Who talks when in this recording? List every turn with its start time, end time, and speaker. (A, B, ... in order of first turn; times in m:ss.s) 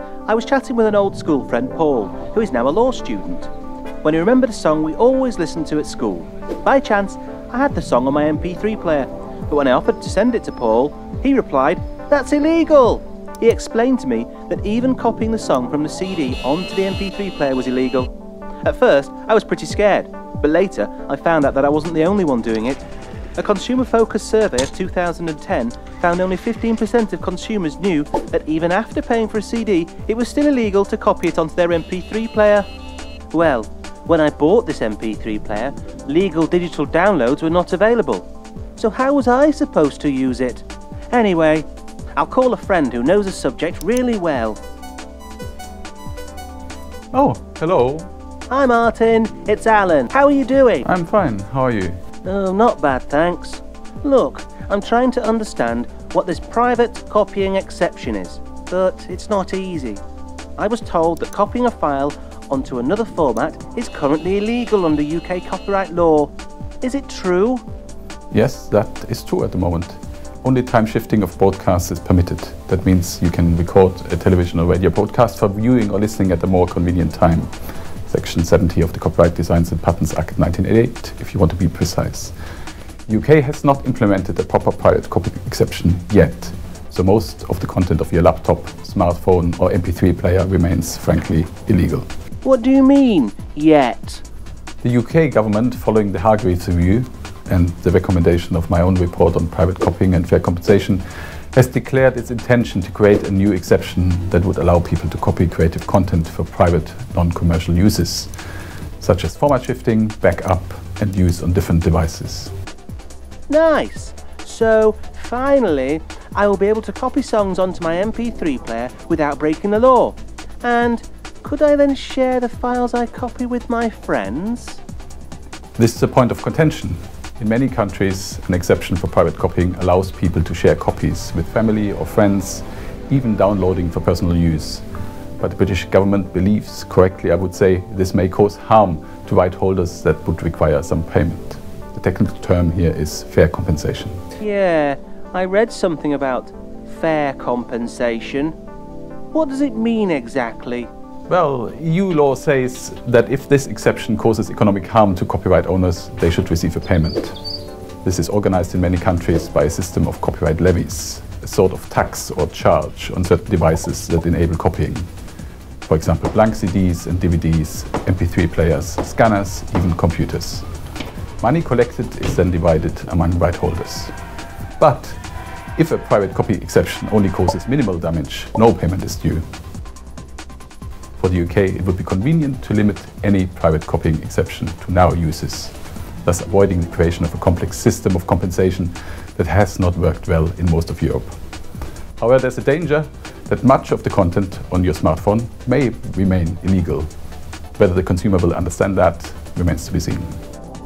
0:00.3-0:03.5 A
0:04.0-0:22.8 A
0:23.4-0:32.7 A
0:33.3-0:38.3 A
0:38.8-0:44.6 A
0:47.1-0:48.1 B
0:48.5-0:50.9 A
0:50.8-0:52.0 B
0:52.2-1:00.0 A
1:00.6-1:07.6 A
1:08.3-1:17.5 B
1:18.1-1:22.3 B
1:23.1-1:32.1 B
1:32.4-1:34.2 A
1:34.8-1:48.3 B
1:49.0-1:52.5 B
1:53.5-2:04.8 A
2:05.8-2:14.8 B
2:15.4-2:24.2 B
2:24.4-2:28.6 A
2:29.3-2:30.9 A
2:31.3-2:37.4 B
2:38.0-2:45.1 B
2:45.9-2:50.7 B
2:51.4-2:54.1 B
2:54.8-2:55.2 B
2:55.8-2:59.4 B
3:01.2-3:11.4 B
3:12.2-3:17.1 B
3:17.8-3:20.4 B